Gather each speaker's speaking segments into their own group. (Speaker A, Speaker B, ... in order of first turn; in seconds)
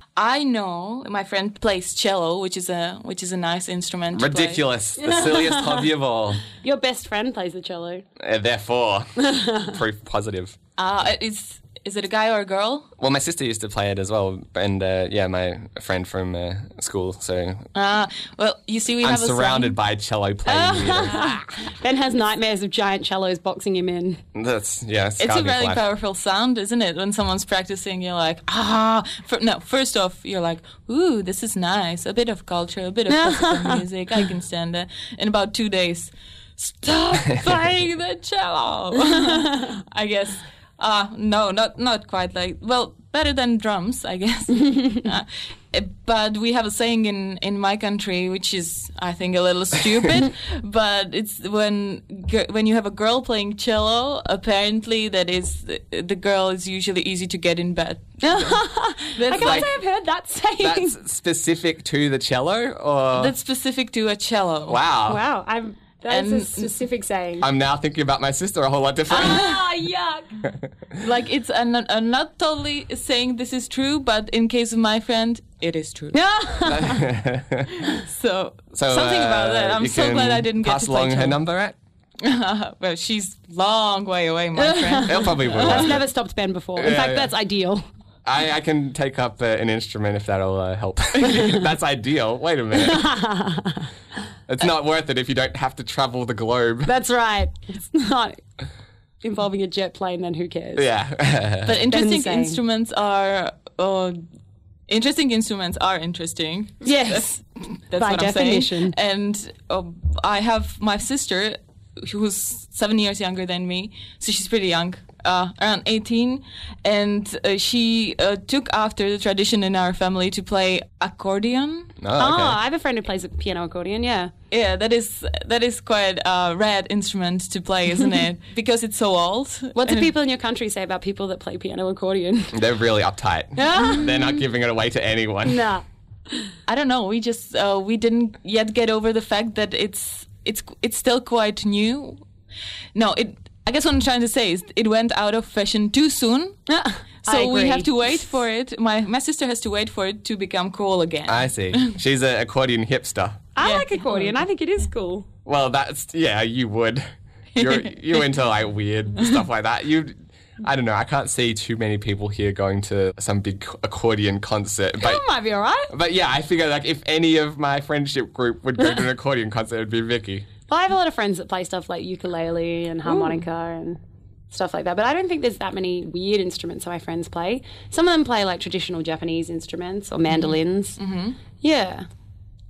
Speaker A: 0.1-4.6, 10.8-12.9, 17.7-19.8, 25.2-58.6, 59.1-59.7, 63.1-64.8, 66.1-66.7, 71.0-76.2, 77.8-81.4, 82.2-85.9, 101.6-104.2, 104.9-121.9, 124.5-130.1, 136.7-142.2, 142.9-146.6, 147.2-151.9, 153.6-154.4, 157.6-158.2, 173.1-173.3, 180.3-181.4
Speaker B: 4.1-6.4, 8.2-10.6, 13.0-17.7, 19.0-21.3, 24.3-25.8, 59.4-59.7, 60.6-63.3, 64.7-65.2, 67.4-69.6, 76.6-77.8, 78.7-81.8, 85.0-86.0, 86.8-87.3, 88.2-93.1, 94.5-96.9, 100.7-101.8, 122.0-122.6, 132.5-135.7, 151.3-153.4, 155.4-165.2, 165.9-170.5
Speaker C: 5.0-5.9, 6.5-8.0, 9.2-9.7, 20.4-24.2, 33.1-33.8, 39.2-39.5, 58.2-61.0, 65.1-67.5, 69.1-70.4, 76.1-77.1, 84.6-87.8, 92.7-93.9, 96.8-98.4, 99.2-100.9, 101.9-102.6, 106.8-107.3, 107.9-108.9, 122.2-124.3, 129.8-132.6, 133.6-134.4, 135.4-136.5, 146.7-148.3, 153.5-155.3, 165.0-165.9, 170.7-174.0, 174.5-181.0, 181.6-182.1